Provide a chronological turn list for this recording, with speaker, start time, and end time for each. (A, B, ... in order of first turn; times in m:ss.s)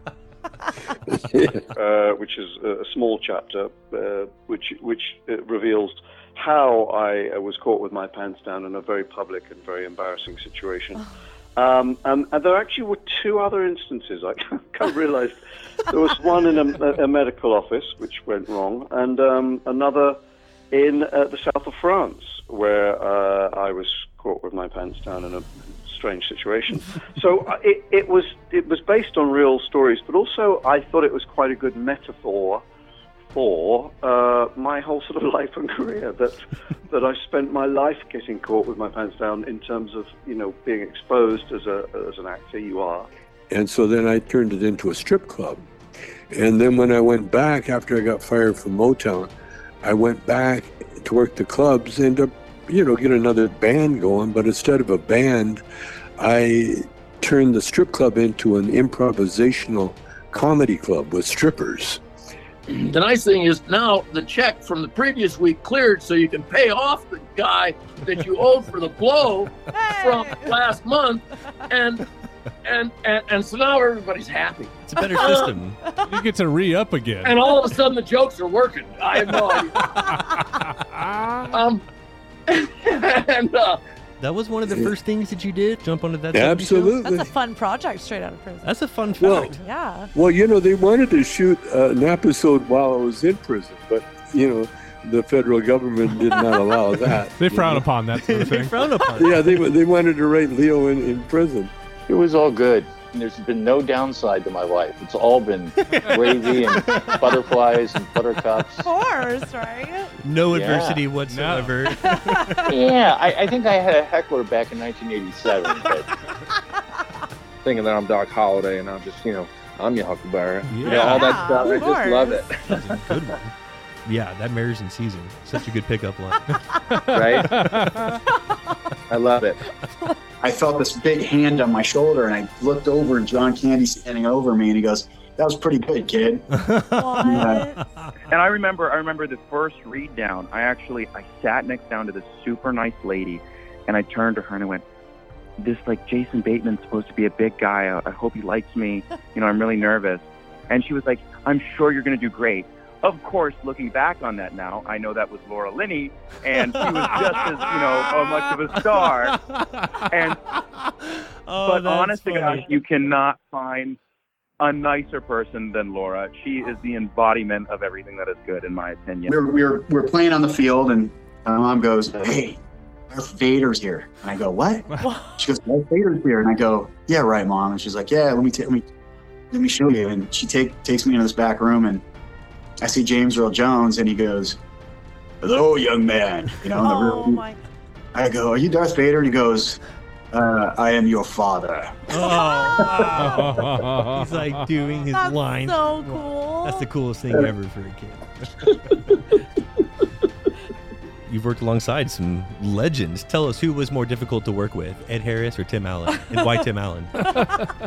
0:01.1-0:01.6 A
0:01.8-0:11.0 B
0:11.6-0:20.2 B
0:20.7-0:32.6 B
0:33.3-0:43.1 B
0:43.5-0:45.6 A
0:46.3-0:49.3 A
0:49.8-0:55.6 A
0:56.2-1:02.0 A
1:02.7-1:12.0 C
1:09.7-1:10.6 D
1:12.6-1:15.6 C
1:14.8-1:15.8 E
1:15.9-1:16.2 D
1:16.1-1:17.5 F
1:17.2-1:19.9 C
1:20.1-1:20.4 D
1:20.9-1:21.5 F
1:21.5-1:21.8 C
1:22.5-1:23.8 C
1:24.2-1:27.0 E
1:26.3-1:27.3 A
1:27.0-1:28.7 D
1:28.6-1:29.6 E
1:29.2-1:29.6 A
1:29.3-1:30.1 D
1:30.1-1:37.9 A
1:36.2-1:36.8 D
1:37.4-1:38.9 F
1:38.2-1:39.6 E
1:39.2-1:41.7 A
1:42.1-1:48.9 G
1:45.9-1:47.2 E
1:48.8-1:50.1 D
1:50.2-1:52.7 E
1:50.5-1:51.0 G
1:51.3-1:51.8 F
1:51.9-1:52.8 D
1:52.7-1:56.1 G
1:57.6-2:02.8 H
2:00.7-2:01.6 E
2:00.8-2:02.4 D
2:02.7-2:03.5 E
2:04.0-2:06.5 E
2:06.7-2:07.3 D
2:07.0-2:08.2 F
2:07.1-2:07.5 H
2:09.1-2:09.6 H
2:10.4-2:16.5 I
2:16.5-2:18.1 E
2:17.0-2:17.8 D
2:17.2-2:17.6 I
2:18.3-2:24.8 J
2:25.6-2:39.4 J
2:36.8-2:37.4 E
2:38.8-2:39.9 E
2:40.1-2:40.4 J
2:41.5-2:42.8 E
2:41.6-2:44.0 J
2:44.6-2:49.3 J
2:49.3-2:52.6 I
2:53.1-2:58.8 I
2:55.0-2:55.5 D
2:59.5-3:02.0 I
3:02.8-3:04.6 I
3:05.4-3:07.4 I
3:06.8-3:07.6 D
3:08.1-3:09.8 I
3:10.3-3:12.0 I
3:12.1-3:18.2 E
3:12.2-3:13.4 D
3:13.2-3:14.6 F
3:15.1-3:16.9 D
3:21.3-3:27.3 E
3:27.4-3:27.6 F